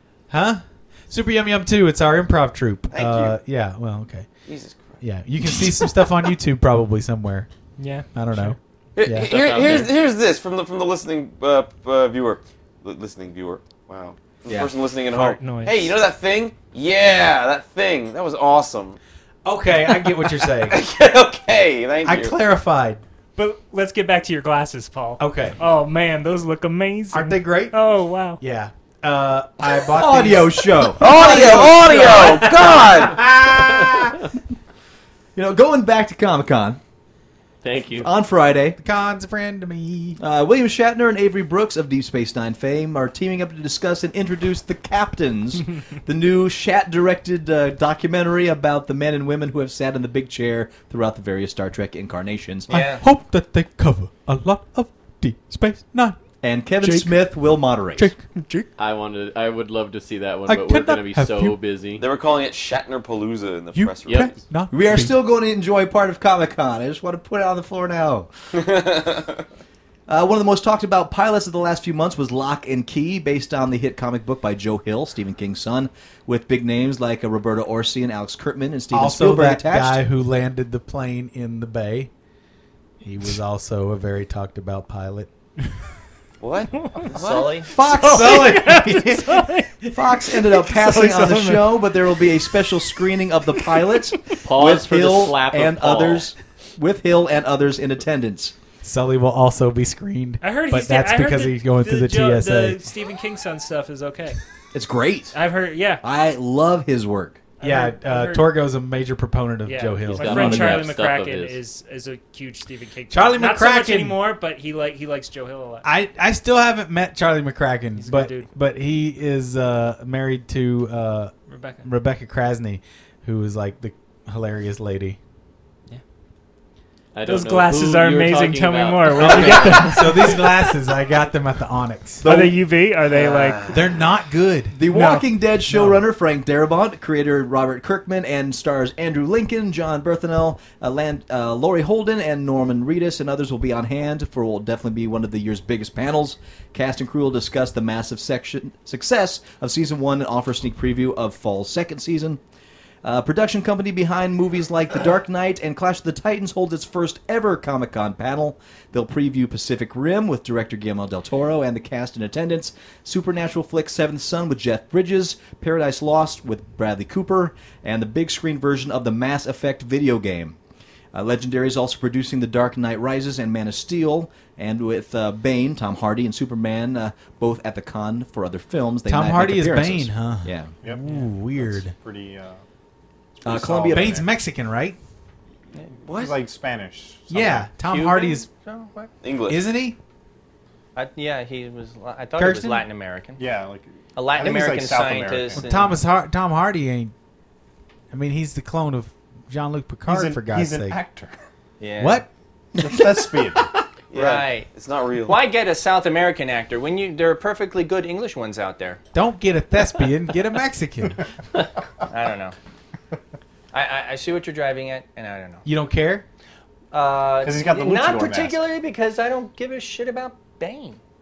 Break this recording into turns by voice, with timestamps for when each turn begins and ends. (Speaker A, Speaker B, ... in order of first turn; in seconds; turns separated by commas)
Speaker A: 0.3-4.3, Speaker B: 2.9-3.4, Speaker B: 4.5-5.0, Speaker A: 5.0-7.5, Speaker C: 7.8-8.5, Speaker A: 8.1-9.3, Speaker B: 9.0-19.0, Speaker D: 9.2-9.9, Speaker C: 15.4-15.9, Speaker A: 19.4-20.8, Speaker B: 20.7-22.4, Speaker A: 22.0-23.0, Speaker C: 23.4-28.4, Speaker A: 25.2-25.6, Speaker A: 27.1-27.8, Speaker A: 28.4-31.6, Speaker E: 29.9-32.4, Speaker B: 31.0-33.2, Speaker C: 31.3-32.5, Speaker A: 33.0-34.2, Speaker E: 35.3-36.8, Speaker D: 37.6-38.1, Speaker E: 38.0-38.8, Speaker A: 38.8-40.2, Speaker E: 40.2-52.7, Speaker F: 52.7-53.0, Speaker A: 52.7-56.2, Speaker E: 56.4-58.1, Speaker A: 56.8-57.4, Speaker A: 58.0-58.7, Speaker D: 58.8-62.0, Speaker A: 60.5-61.6, Speaker B: 62.0-64.4, Speaker A: 63.7-65.2, Speaker D: 64.0-64.3, Speaker E: 64.7-68.3, Speaker B: 68.5-69.4, Speaker E: 70.1-80.0, Speaker A: 78.9-82.1, Speaker A: 83.0-85.3, Speaker B: 86.4-87.7, Speaker C: 86.8-87.1, Speaker F: 87.1-87.7, Speaker A: 87.6-89.4, Speaker C: 87.7-91.8, Speaker E: 88.0-88.5, Speaker E: 89.9-98.5, Speaker D: 94.4-96.3, Speaker A: 98.8-102.8, Speaker C: 100.4-104.4, Speaker E: 104.7-105.3, Speaker C: 105.3-106.0, Speaker E: 106.0-107.4, Speaker C: 107.6-108.5, Speaker A: 107.6-110.8, Speaker C: 109.6-115.8, Speaker D: 110.1-111.6, Speaker E: 110.4-110.8, Speaker A: 113.1-114.2, Speaker A: 115.8-121.3, Speaker C: 118.0-118.5, Speaker C: 121.5-121.9, Speaker A: 121.8-125.2, Speaker D: 127.1-130.1, Speaker C: 127.2-130.6, Speaker A: 129.2-132.4, Speaker C: 132.2-133.7, Speaker E: 132.2-132.6, Speaker B: 133.1-133.9, Speaker A: 133.7-134.8, Speaker E: 134.7-152.4, Speaker C: 134.9-135.2, Speaker E: 153.0-170.6, Speaker E: 171.1-180.7, Speaker A: 179.1-181.9, Speaker G: 180.8-182.6, Speaker G: 183.4-184.2, Speaker E: 183.4-184.2, Speaker A: 183.9-185.0, Speaker B: 186.0-186.4, Speaker G: 186.1-187.7, Speaker A: 187.3-188.5, Speaker F: 187.8-189.1, Speaker B: 189.2-189.7, Speaker A: 189.5-190.0, Speaker F: 190.9-193.4, Speaker A: 192.4-192.8, Speaker G: 193.4-195.6, Speaker F: 194.1-196.0, Speaker A: 195.6-197.1, Speaker A: 198.1-201.0, Speaker G: 200.1-201.3, Speaker F: 201.8-202.2, Speaker A: 202.0-202.3, Speaker G: 202.8-203.7, Speaker B: 204.1-205.4, Speaker F: 204.1-204.7, Speaker F: 205.2-209.0, Speaker A: 209.1-211.2, Speaker F: 212.1-212.5, Speaker F: 213.7-215.6, Speaker A: 215.6-216.2, Speaker F: 216.9-221.0, Speaker G: 217.4-218.6